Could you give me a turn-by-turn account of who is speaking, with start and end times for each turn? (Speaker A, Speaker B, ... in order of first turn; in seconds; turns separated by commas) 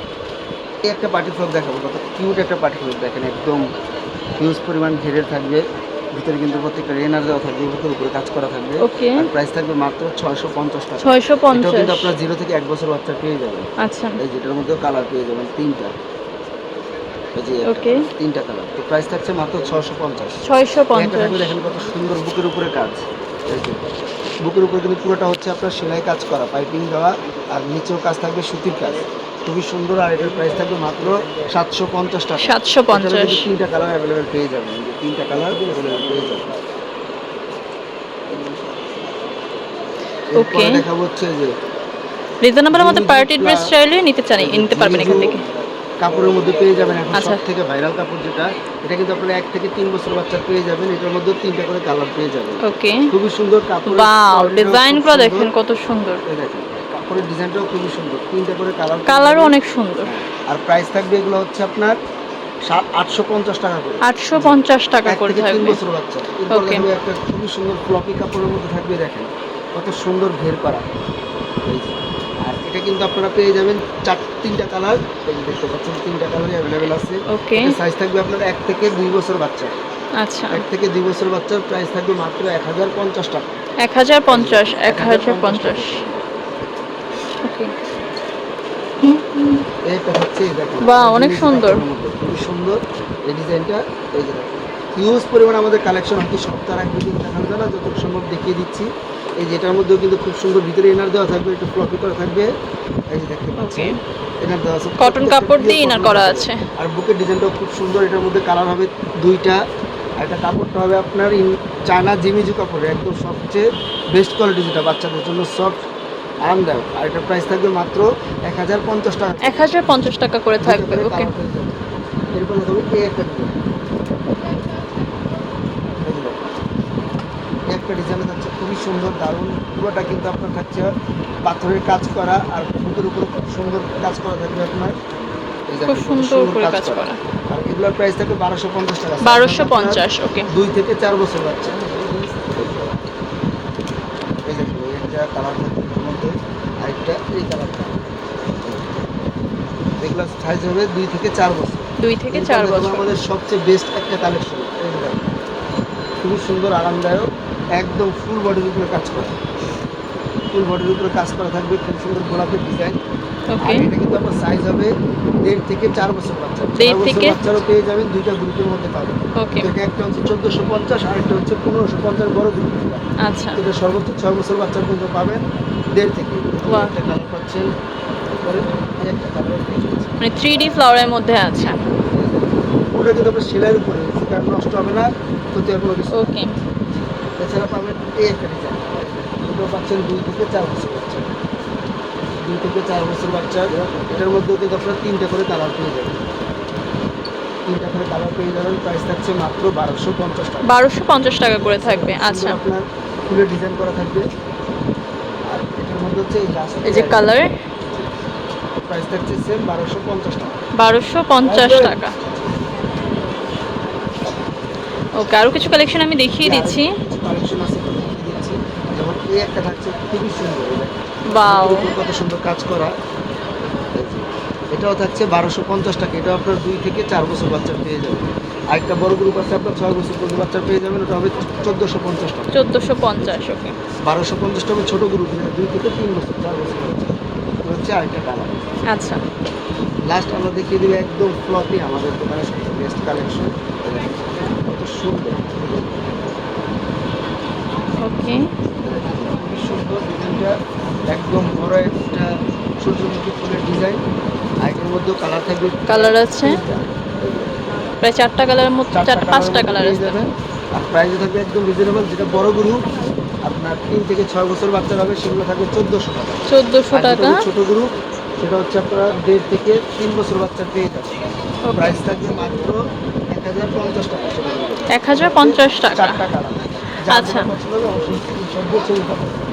Speaker A: 0.9-3.6, Speaker A: 4.4-5.6, Speaker A: 6.2-15.9, Speaker B: 8.8-9.3, Speaker B: 11.0-12.1, Speaker B: 13.8-14.2, Speaker A: 17.4-20.4, Speaker B: 17.7-18.1, Speaker B: 20.4-21.4, Speaker A: 20.9-23.8, Speaker A: 24.5-36.5, Speaker B: 32.4-33.5, Speaker A: 40.3-41.5, Speaker B: 40.4-40.8, Speaker B: 42.4-45.4, Speaker A: 42.7-43.7, Speaker A: 44.4-45.4, Speaker A: 46.0-55.5, Speaker B: 47.1-47.4, Speaker B: 52.6-53.1, Speaker B: 53.9-56.2, Speaker A: 56.2-62.0, Speaker B: 59.1-60.1, Speaker A: 62.7-70.8, Speaker B: 64.1-65.8, Speaker B: 66.5-66.9, Speaker A: 71.7-79.7, Speaker B: 77.3-77.8, Speaker B: 80.2-80.6, Speaker A: 80.5-83.5, Speaker B: 83.8-86.0, Speaker A: 84.3-86.3, Speaker B: 87.5-87.8, Speaker B: 89.0-89.6, Speaker A: 89.9-102.5, Speaker B: 90.8-91.8, Speaker A: 103.1-109.6, Speaker B: 103.6-104.0, Speaker B: 105.0-106.6, Speaker A: 110.2-115.8, Speaker A: 116.4-119.7, Speaker B: 119.4-121.3, Speaker A: 120.6-123.6, Speaker A: 126.0-126.6, Speaker A: 127.7-130.9, Speaker A: 131.4-134.9, Speaker A: 135.7-143.0, Speaker B: 135.9-137.2, Speaker B: 139.2-140.5, Speaker A: 144.5-148.0, Speaker A: 148.6-148.9, Speaker A: 150.0-155.2, Speaker B: 152.0-153.1, Speaker A: 156.2-159.4, Speaker A: 160.5-163.0, Speaker B: 163.5-163.9, Speaker A: 163.6-164.9, Speaker A: 165.4-173.1, Speaker B: 166.8-167.4, Speaker B: 169.4-169.7, Speaker B: 173.2-173.6, Speaker A: 173.6-175.4, Speaker A: 175.9-177.7, Speaker B: 176.7-176.9, Speaker A: 178.4-180.1, Speaker B: 180.2-181.8, Speaker A: 182.1-186.3, Speaker B: 186.1-186.5, Speaker A: 187.4-191.3, Speaker A: 192.5-196.2, Speaker A: 197.7-200.7, Speaker B: 200.7-202.6, Speaker A: 201.4-204.2, Speaker A: 205.5-207.3, Speaker B: 206.9-207.5, Speaker A: 208.9-210.5, Speaker B: 210.8-212.1, Speaker A: 211.4-212.0, Speaker B: 215.2-217.0, Speaker A: 216.4-222.9, Speaker B: 221.3-221.9, Speaker A: 224.0-232.7, Speaker B: 232.5-233.8, Speaker A: 233.2-233.5, Speaker A: 234.1-238.7, Speaker B: 238.9-239.2, Speaker A: 240.1-246.1, Speaker B: 248.0-248.5, Speaker A: 248.8-250.6, Speaker A: 251.1-254.0, Speaker A: 254.6-256.9, Speaker B: 255.9-256.6, Speaker B: 258.0-260.3, Speaker A: 258.9-262.8, Speaker A: 263.5-271.2, Speaker B: 266.5-267.4, Speaker B: 271.6-272.0, Speaker A: 271.7-272.8, Speaker A: 273.3-279.4, Speaker B: 274.9-276.2, Speaker B: 277.1-277.5